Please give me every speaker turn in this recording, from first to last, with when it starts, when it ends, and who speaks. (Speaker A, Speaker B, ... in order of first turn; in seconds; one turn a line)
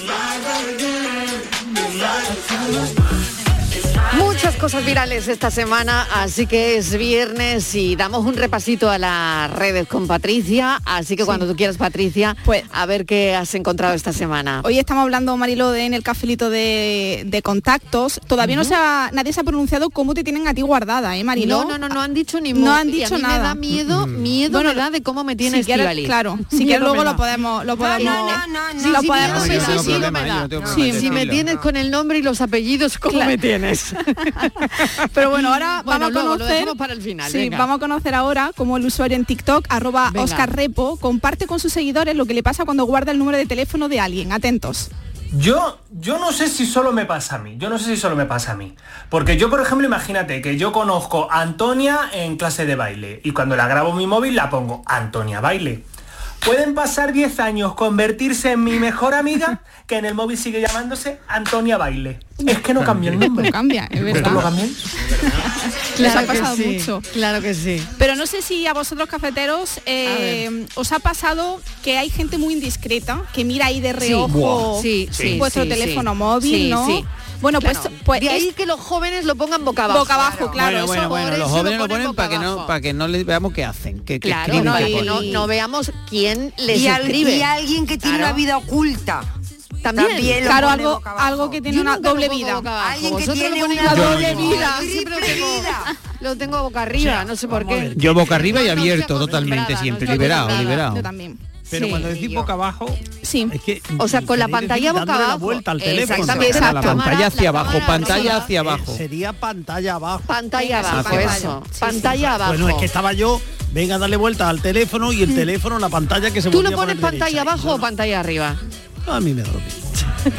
Speaker A: 4.1-14.7
Speaker B: 11.2-11.5
Speaker B: 14.6-21.9
Speaker A: 18.4-18.8
Speaker A: 21.4-34.1
Speaker B: 22.5-23.6
Speaker C: 23.7-24.4
Speaker B: 24.5-24.8
Speaker B: 25.4-30.0
Speaker D: 27.8-30.0
Speaker C: 29.1-31.4
Speaker D: 30.6-31.7
Speaker B: 30.7-31.3
Speaker B: 33.1-33.4
Speaker B: 34.8-44.9
Speaker A: 35.3-37.7
Speaker A: 40.1-40.5
Speaker E: 45.3-55.8
Speaker E: 56.4-63.5
Speaker B: 63.3-64.5
Speaker E: 64.3-64.7
Speaker B: 65.2-67.0
Speaker A: 66.0-67.9
Speaker B: 68.0-78.5
Speaker A: 70.0-70.5
Speaker A: 74.0-77.0
Speaker F: 74.3-74.7
Speaker A: 77.6-82.7
Speaker B: 79.9-81.3
Speaker D: 80.1-80.6
Speaker C: 80.5-85.5
Speaker A: 84.2-87.5
Speaker B: 84.5-85.5
Speaker D: 86.7-89.3
Speaker A: 88.0-88.4
Speaker A: 89.8-90.7
Speaker D: 89.9-91.6
Speaker B: 90.4-92.7
Speaker A: 91.7-100.8
Speaker D: 92.8-95.9
Speaker C: 93.9-94.4
Speaker B: 93.9-94.9
Speaker F: 96.9-99.6
Speaker C: 97.9-101.1
Speaker B: 100.0-101.4
Speaker F: 101.7-106.9
Speaker A: 101.7-102.4
Speaker B: 103.2-103.5
Speaker A: 104.0-108.5
Speaker D: 106.1-106.6
Speaker C: 106.2-109.0
Speaker B: 106.5-107.0
Speaker B: 108.0-108.4
Speaker F: 108.1-110.4
Speaker A: 110.2-112.9
Speaker B: 110.5-112.3
Speaker C: 110.9-111.5
Speaker F: 110.9-111.4
Speaker F: 112.2-117.9
Speaker A: 116.5-118.6
Speaker F: 119.0-120.0